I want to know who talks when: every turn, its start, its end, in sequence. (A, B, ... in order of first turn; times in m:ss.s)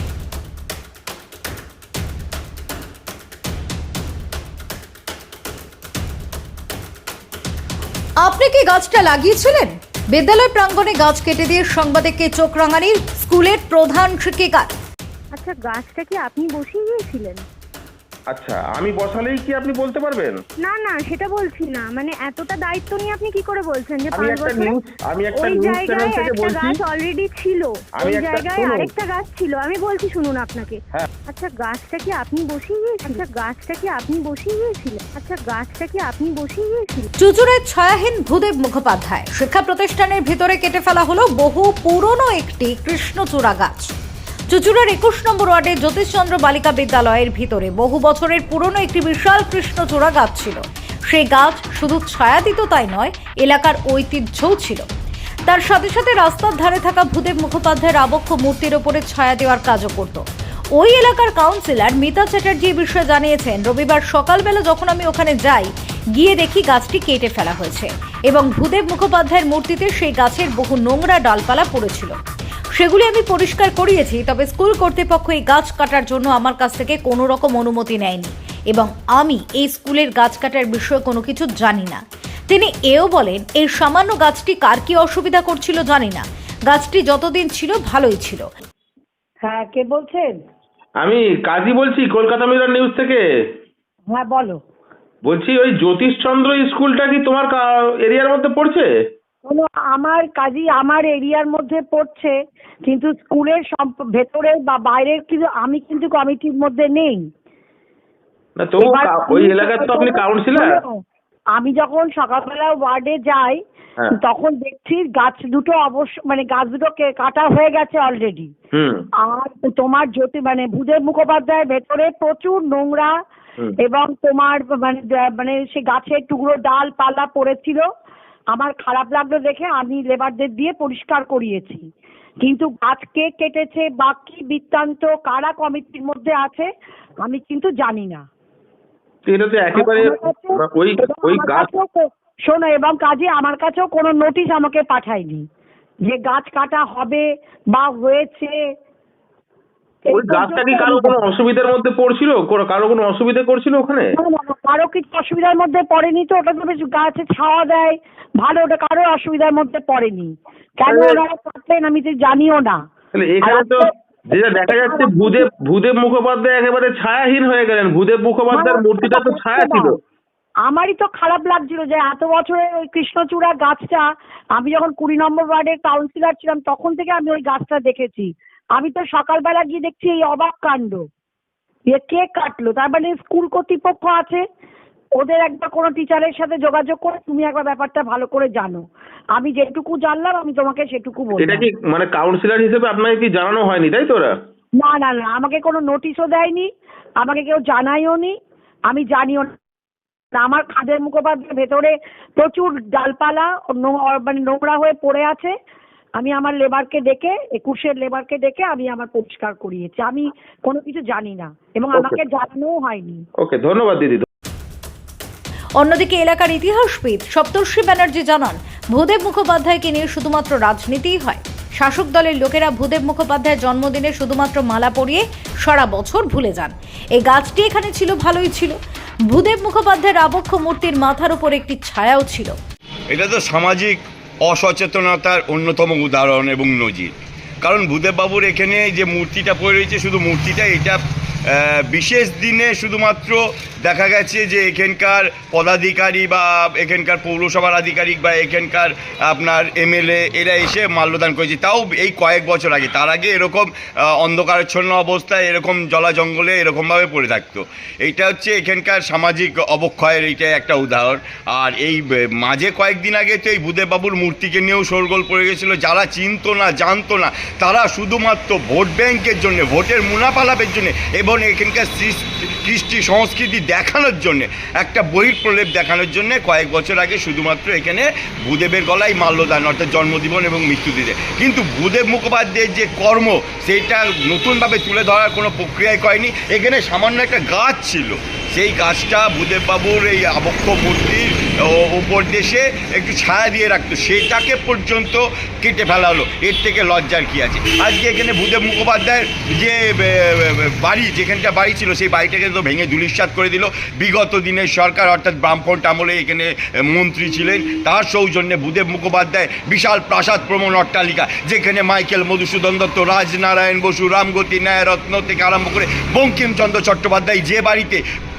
0:08.2-0:14.7 A
0:15.4-0:17.4 B
0:18.3-0:20.4 C
0:20.6-0:24.8 B
0:24.1-0:26.8 C
0:25.4-0:37.1 B
0:28.0-0:28.9 C
0:37.2-0:43.9 A
0:44.5-0:54.8 A
0:55.5-1:00.2 A
1:00.8-1:12.2 A
1:12.8-1:28.4 A
1:29.4-1:30.4 D
1:31.0-1:33.2 C
1:34.1-1:34.6 D
1:35.2-1:38.9 C
1:39.4-1:47.3 D
1:48.6-1:50.8 C
1:48.8-1:51.0 D
1:51.5-1:53.6 D
1:54.1-1:58.5 D
1:58.8-1:59.0 C
1:59.2-2:03.1 D
2:03.8-2:07.9 D
2:08.5-2:11.9 D
2:12.4-2:16.7 D
2:17.2-2:18.3 D
2:19.3-2:21.7 C
2:19.7-2:25.4 D
2:26.0-2:28.6 D
2:30.1-2:31.2 D
2:30.1-2:34.1 C
2:34.2-2:42.8 D
2:40.9-2:41.2 C
2:43.1-2:50.0 C
2:43.4-2:45.5 D
2:48.5-2:49.9 D
2:50.6-3:01.1 D
3:01.9-3:04.4 D
3:05.2-3:11.7 D
3:11.4-3:14.3 C
3:14.8-3:18.4 D
3:18.9-3:19.6 D
3:20.3-3:25.5 D
3:26.2-3:33.2 D
3:33.4-3:34.3 C
3:35.8-3:48.8 A
3:49.3-3:52.6 A
3:53.1-4:01.0 E
4:01.5-5:18.0 E